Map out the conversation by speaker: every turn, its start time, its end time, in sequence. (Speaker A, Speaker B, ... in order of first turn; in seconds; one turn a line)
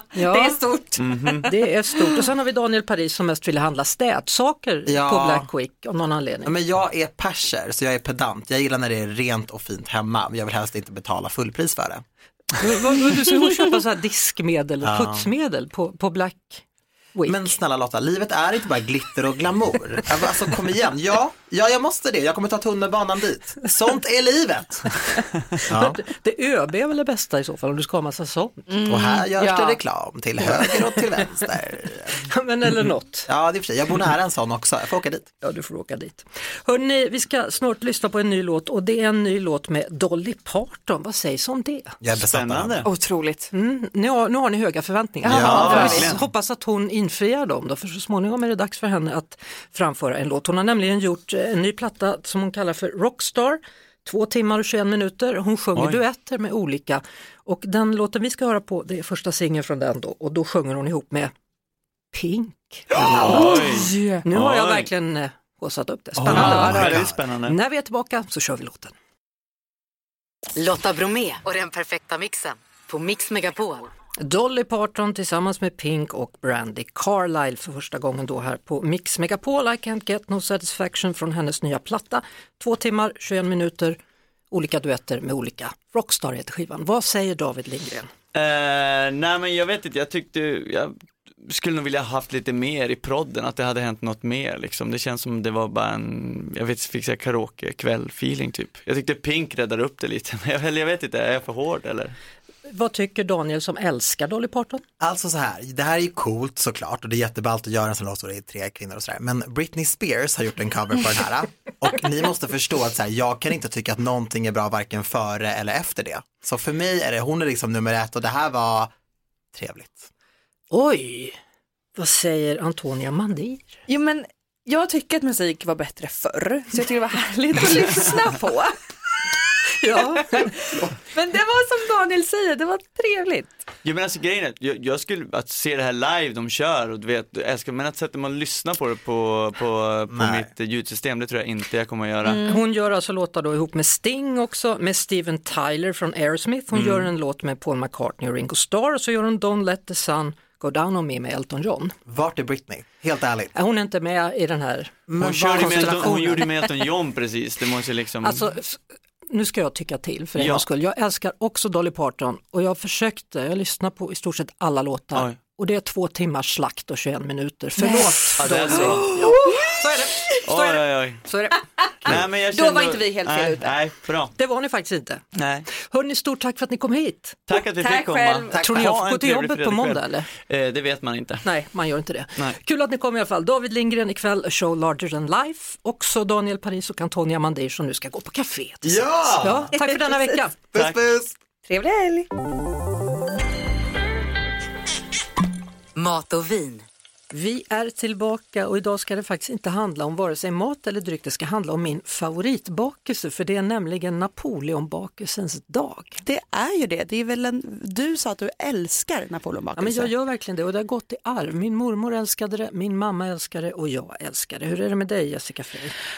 Speaker A: 0.1-0.6
Speaker B: 0.1-1.0
Speaker C: 1.0-1.5
Speaker A: 1.4-6.5
Speaker D: 4.9-5.5
Speaker D: 6.4-12.0
Speaker A: 12.6-16.6
Speaker D: 14.8-15.3
Speaker A: 17.1-17.5
Speaker D: 17.2-24.9
Speaker D: 25.6-26.0
Speaker A: 25.7-28.7
Speaker B: 28.7-29.8
Speaker D: 28.9-32.2
Speaker A: 32.3-33.3
Speaker D: 33.3-35.3
Speaker A: 35.4-42.0
Speaker D: 42.0-42.8
Speaker C: 42.1-42.9
Speaker B: 42.8-43.5
Speaker A: 43.5-61.3
Speaker B: 45.2-46.1
Speaker D: 45.3-45.9
Speaker C: 45.3-46.2
Speaker C: 55.7-56.0
Speaker A: 62.1-63.6
Speaker C: 63.1-64.9
Speaker B: 63.2-64.2
Speaker A: 64.2-68.9
Speaker D: 66.2-67.2
Speaker C: 66.3-67.5
Speaker E: 70.5-73.9
Speaker A: 74.2-84.0
Speaker A: 84.5-88.1
Speaker C: 88.3-90.9
Speaker C: 91.4-102.1
Speaker A: 102.7-104.8
Speaker D: 105.0-118.9
Speaker D: 119.5-120.1
Speaker A: 120.7-121.4
Speaker A: 121.9-123.8
Speaker B: 123.9-128.7
Speaker A: 129.8-130.5
Speaker B: 129.8-133.6
Speaker C: 133.8-142.4
Speaker D: 140.1-140.5
Speaker B: 142.2-142.6
Speaker A: 142.5-151.9
Speaker C: 146.7-147.1
Speaker D: 152.1-153.5
Speaker A: 153.5-156.7
Speaker D: 155.1-156.2
Speaker C: 155.2-158.4
Speaker A: 158.2-171.6
Speaker C: 160.4-160.6
Speaker B: 167.8-169.7
Speaker C: 168.4-169.1
Speaker C: 170.4-171.2
Speaker C: 172.1-174.3
Speaker B: 172.5-173.8
Speaker A: 174.4-175.2
Speaker C: 175.3-175.7
Speaker A: 175.7-177.4
Speaker C: 177.5-181.4
Speaker B: 177.5-178.6
Speaker A: 178.6-180.3
Speaker A: 181.4-190.5
Speaker D: 188.8-189.7
Speaker B: 189.7-190.4
Speaker D: 190.7-191.3
Speaker B: 191.6-192.3
Speaker E: 195.9-196.8
Speaker A: 197.3-206.2
Speaker F: 206.2-210.1
Speaker A: 209.8-215.9